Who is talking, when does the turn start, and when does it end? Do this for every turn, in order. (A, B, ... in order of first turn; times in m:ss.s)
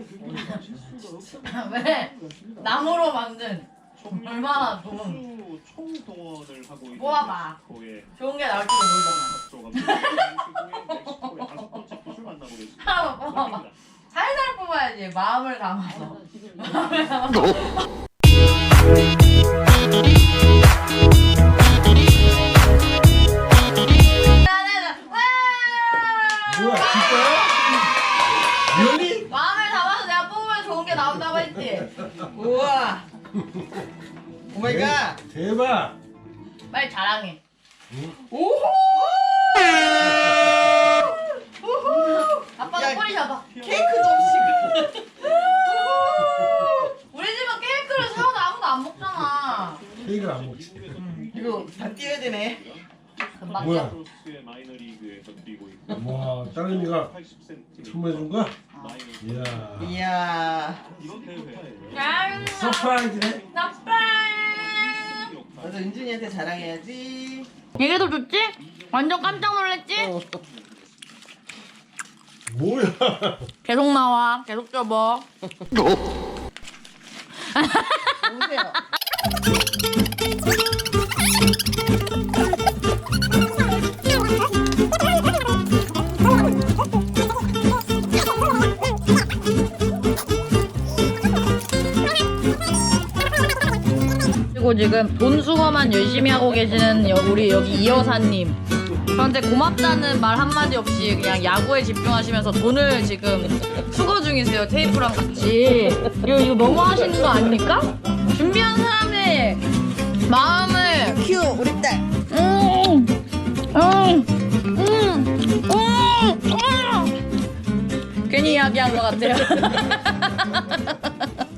0:00.5-0:00.9 A
0:01.4-0:05.2 B
0:05.2-0:07.6 C
0:06.9-0:07.6 B
0:08.2-0:11.1 B
0:09.3-0:12.4 C
0:12.8-0:17.8 B
0:24.3-0:27.8 B
0:26.5-0:27.6 D
0:28.7-0:29.3 D
0:28.7-0:32.0 B
0:32.3-0:33.1 A
0:33.4-0:33.8 D
0:34.5-0:35.2 A
0:34.6-0:36.0 D
0:36.7-0:37.4 B
0:37.9-0:38.2 D
0:38.3-0:39.2 A
0:41.0-0:43.4 B
0:41.9-0:45.0 A
0:45.0-0:49.8 B
0:49.8-0:52.8 C
0:50.0-0:51.1 D
0:51.0-0:51.3 B
0:51.3-0:52.7 A
0:53.4-0:54.0 B
0:53.4-0:55.9 C
0:53.5-0:54.0 D
0:55.9-0:57.2 D
0:57.4-0:57.8 C
0:57.8-0:58.5 D
0:59.2-1:00.0 D
0:59.8-1:00.8 A
1:00.8-1:02.0 C
1:01.9-1:05.3 B
1:02.3-1:03.4 D
1:04.7-1:05.6 C
1:05.6-1:07.5 A
1:07.8-1:10.2 B
1:12.5-1:13.5 D
1:13.6-1:15.3 B
1:17.4-1:18.4 B
1:18.2-1:18.8 A
1:34.5-1:49.6 B
1:50.3-1:51.2 B
1:51.2-1:52.0 A
1:52.3-1:53.1 B
1:53.7-1:57.2 B
1:58.3-2:01.2 B